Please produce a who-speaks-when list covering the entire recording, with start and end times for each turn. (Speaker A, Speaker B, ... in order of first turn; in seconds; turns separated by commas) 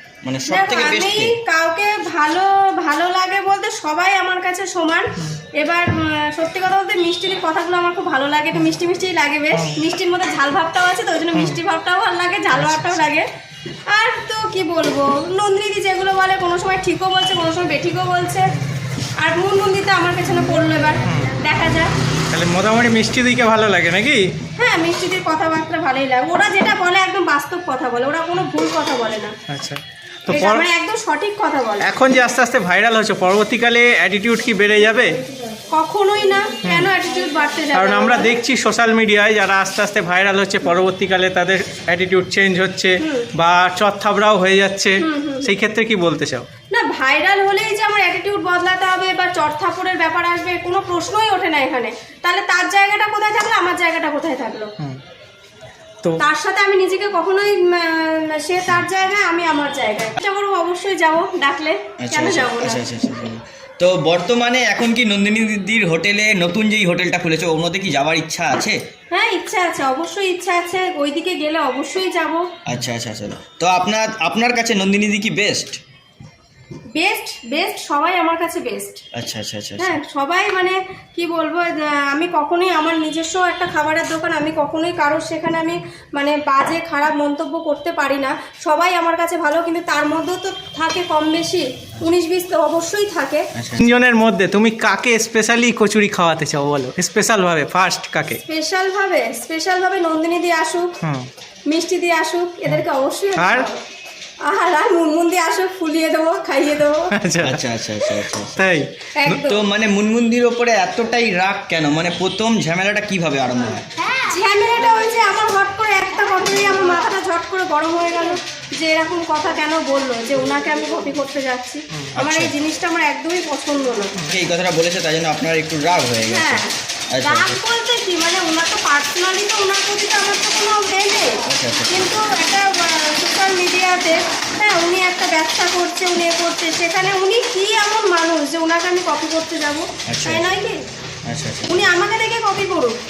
Speaker A: 0.2-1.4, Speaker B: 0.5-13.3, Speaker C: 12.6-13.0, Speaker B: 13.9-18.5, Speaker B: 19.2-21.9, Speaker C: 21.1-21.3, Speaker C: 22.3-24.3, Speaker B: 24.6-29.4, Speaker C: 29.5-30.6, Speaker B: 30.3-31.9, Speaker C: 31.8-35.2, Speaker B: 35.7-38.4, Speaker C: 36.6-36.9, Speaker C: 37.7-46.5, Speaker B: 43.0-43.3, Speaker B: 45.0-45.6, Speaker B: 46.7-54.7, Speaker B: 56.2-62.9, Speaker A: 62.0-68.8, Speaker B: 69.1-72.4, Speaker A: 72.7-75.8, Speaker B: 77.0-79.0, Speaker A: 79.1-80.0, Speaker B: 79.8-93.5, Speaker A: 93.5-93.8, Speaker C: 93.8-98.4, Speaker B: 98.4-100.9, Speaker C: 101.0-101.3, Speaker B: 101.7-103.8, Speaker C: 103.4-103.7, Speaker B: 104.5-107.1, Speaker C: 107.1-107.6, Speaker A: 107.4-108.7, Speaker C: 108.6-109.3, Speaker B: 109.2-109.6, Speaker A: 109.4-113.9, Speaker B: 114.2-124.1, Speaker A: 122.2-122.5, Speaker A: 124.3-127.6, Speaker B: 126.2-140.8, Speaker A: 131.5-132.1, Speaker A: 140.1-140.5, Speaker A: 141.2-141.8, Speaker B: 141.7-143.0